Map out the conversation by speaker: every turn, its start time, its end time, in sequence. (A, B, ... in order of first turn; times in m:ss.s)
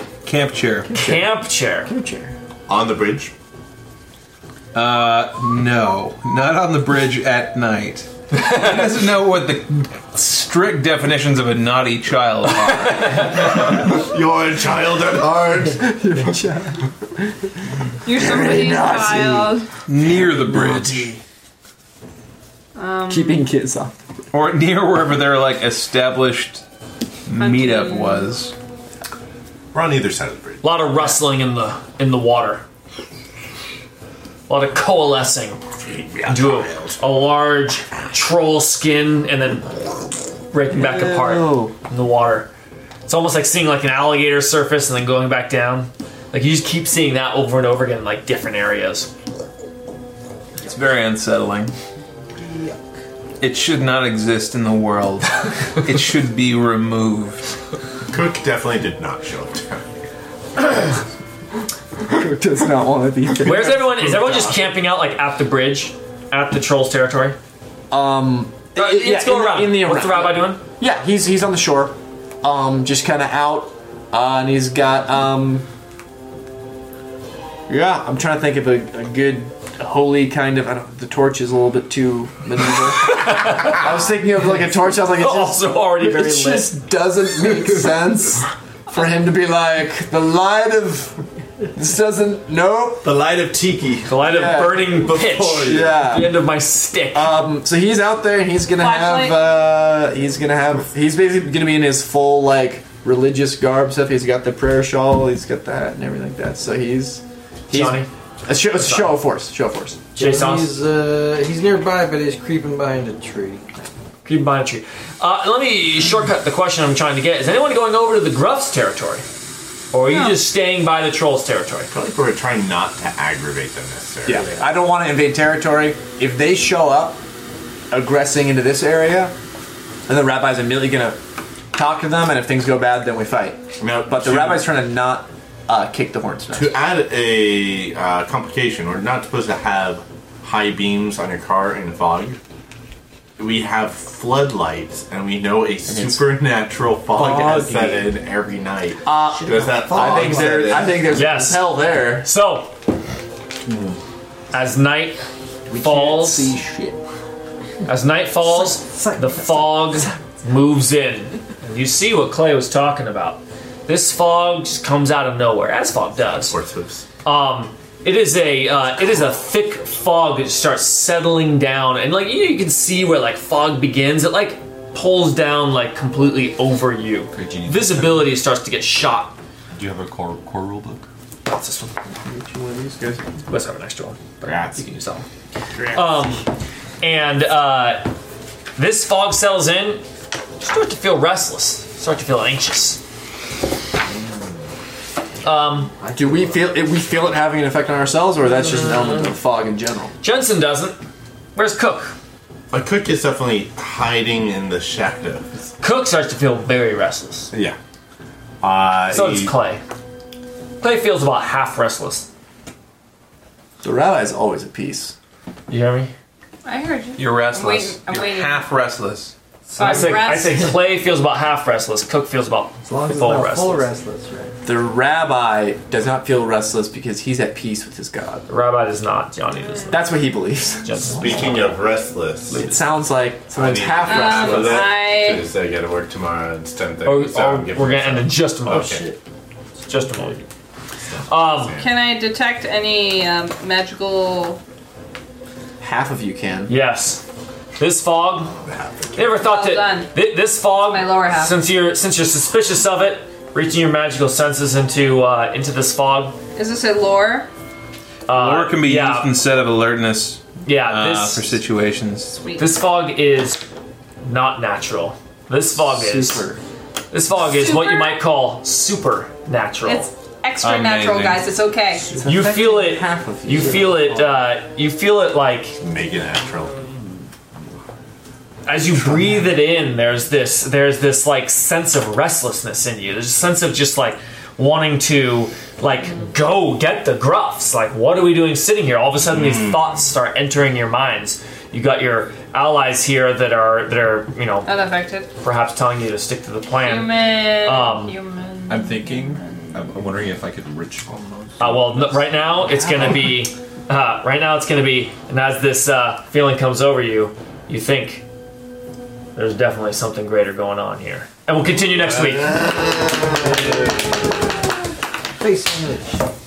0:00.2-0:01.0 A
0:00.9-0:01.9 B
0:01.9-0:02.3 C
0:02.7-0:03.3 D
0:04.7-0:13.2 A
0:08.3-0:09.0 B
0:12.6-0:13.6 B
0:13.2-0:15.9 D
0:15.7-0:17.2 C
0:18.0-0:19.7 E
0:18.1-0:21.2 C
0:19.9-0:21.1 A
0:22.8-0:23.5 E
0:23.1-0:23.9 C
0:24.3-0:26.6 A
0:27.3-0:28.5 A
0:27.4-0:28.3 E
0:29.7-0:30.7 D
0:30.6-0:32.6 B
0:34.5-0:35.6 B
0:35.8-0:37.0 D
0:36.2-0:39.7 B
0:40.5-0:42.5 B
0:40.7-0:41.7 C
0:43.1-0:49.1 B
0:50.6-0:51.7 A
0:52.4-0:52.8 F
0:53.4-0:57.4 A
0:58.1-1:00.0 D
1:02.1-1:04.7 C
1:03.4-1:07.4 B
1:07.9-1:15.7 C
1:08.8-1:10.6 B
1:17.7-1:31.2 C
1:23.0-1:24.0 B
1:25.1-1:26.7 B
1:31.7-1:33.1 C
1:33.0-1:34.1 G
1:33.8-1:34.0 D
1:34.1-1:37.4 B
1:34.2-1:35.0 C
1:35.0-1:36.0 G
1:35.6-1:36.4 C
1:37.1-1:50.1 C
1:38.8-1:39.4 E
1:47.7-1:48.1 B
1:48.8-1:49.2 B
1:50.2-1:53.7 F
1:50.2-1:50.7 B
1:54.2-1:59.2 B
1:59.9-2:01.9 B
2:00.1-2:00.4 E
2:01.9-2:04.5 D
2:04.3-2:07.2 C
2:07.9-2:09.4 C
2:10.1-2:11.2 C
2:11.7-2:16.8 C
2:13.8-2:14.7 D
2:16.5-2:22.4 D
2:23.4-2:31.0 D
2:25.9-2:26.2 C
2:27.1-2:28.1 C
2:29.0-2:32.3 C
2:29.5-2:30.9 G
2:31.1-2:32.8 B
2:33.7-2:34.0 G
2:34.5-2:35.2 B
2:35.7-2:37.0 C
2:35.8-2:36.6 B
2:37.9-2:46.6 B
2:38.8-2:39.3 F
2:46.3-2:47.1 D
2:47.2-2:59.4 B
2:57.3-2:58.4 G
2:59.7-3:01.1 G
3:01.5-3:01.9 B
3:02.2-3:03.2 C
3:03.5-3:05.2 B
3:04.4-3:04.8 D
3:05.8-3:06.0 D
3:05.9-3:06.5 B
3:07.0-3:08.1 B
3:08.8-3:10.0 B
3:10.6-3:13.0 B
3:15.4-3:15.9 B
3:16.0-3:16.3 F
3:16.1-3:20.1 C
3:20.2-3:21.0 B
3:21.6-3:22.2 B
3:22.7-3:25.5 D
3:25.8-3:27.5 B
3:27.5-3:27.8 D
3:28.6-3:29.5 D
3:29.1-3:29.8 B
3:30.8-3:32.3 B
3:33.8-3:35.2 C
3:35.7-3:36.1 B
3:36.6-3:38.7 E
3:37.2-3:39.3 A
3:39.8-3:40.8 E
3:39.8-3:43.9 B
3:42.8-3:44.6 F
3:44.6-3:48.5 C
3:48.5-3:50.0 B
3:49.9-3:51.0 C
3:50.8-3:51.8 B
3:51.1-3:52.7 D
3:52.5-3:55.0 C
3:53.5-3:59.1 D
3:54.1-3:55.5 E
3:57.0-3:59.0 B
3:58.8-3:59.1 F
3:59.9-4:00.4 B
4:01.1-4:01.9 D
4:01.3-4:01.8 B
4:01.8-4:04.6 E
4:05.8-4:06.7 C
4:06.7-4:07.2 B
4:07.8-4:08.6 B
4:08.6-4:09.4 D
4:09.2-4:16.4 B
4:09.4-4:10.2 E
4:10.8-4:11.6 E
4:16.6-4:17.5 E
4:18.3-4:19.3 B
4:18.3-4:22.4 A
4:20.6-4:21.5 B
4:22.4-4:22.7 E
4:22.6-4:23.6 B
4:24.2-4:26.5 B
4:25.8-4:26.6 C
4:27.1-4:30.1 B
4:27.4-4:28.2 E
4:29.8-4:32.1 E
4:30.6-4:31.5 A
4:32.1-4:34.2 C
4:32.2-4:35.8 B
4:35.8-4:36.8 D
4:38.7-4:54.8 B
4:49.3-4:50.0 D
4:54.7-4:55.3 E
4:55.4-4:58.2 B
4:56.8-4:59.7 E
4:58.7-5:02.4 G
5:01.6-5:08.2 B
5:09.4-5:12.6 B
5:11.9-5:14.1 D
5:15.4-5:16.2 F